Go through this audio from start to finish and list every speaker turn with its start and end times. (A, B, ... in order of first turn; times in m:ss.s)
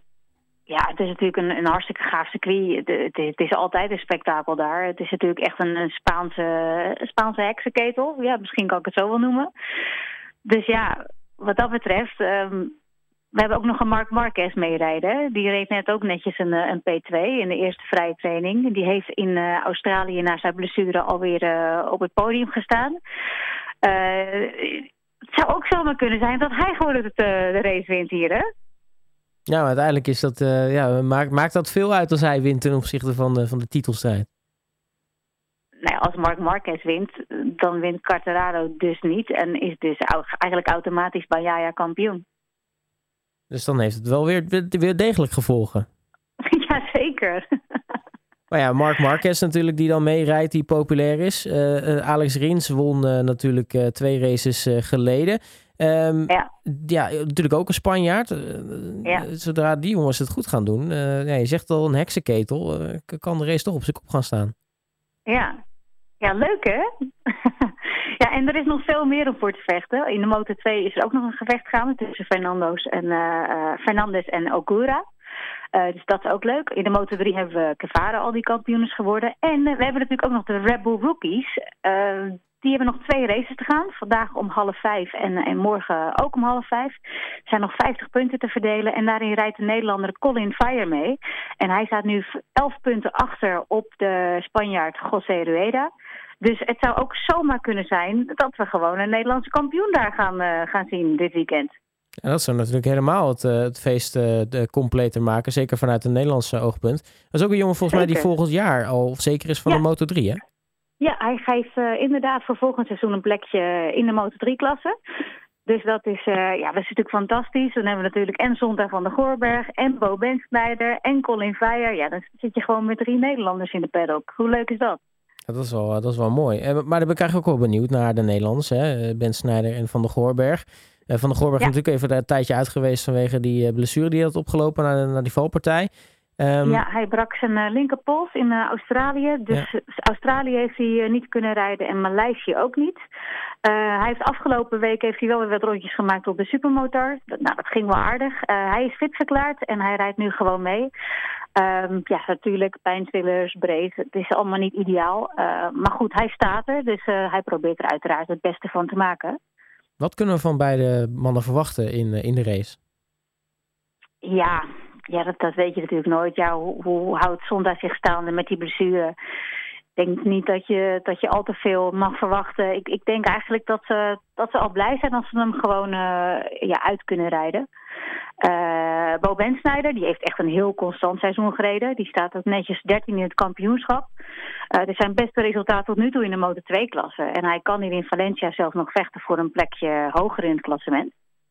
0:00.7-0:09.5 A
0:10.4-0:12.8 A
0:13.4-0:23.0 A
0:23.8-0:28.4 A
0:29.5-0:34.3 B
0:35.8-0:42.2 A
0:43.5-0:45.9 B
0:46.4-0:47.4 A
0:48.5-1:04.5 B
1:05.3-1:05.5 A
1:06.2-1:15.0 A
1:15.7-1:35.9 A
1:36.4-1:41.8 A
1:42.2-1:50.4 B
1:47.9-1:48.3 A
1:51.0-1:54.9 A
1:55.7-2:05.0 A
2:05.5-2:16.8 B
2:16.6-2:23.0 A
2:23.6-2:30.9 A
2:31.6-2:39.4 A
2:40.0-2:42.8 B
2:44.2-2:49.2 A
2:50.0-2:57.7 A
2:58.4-3:04.1 A
3:04.7-3:11.1 A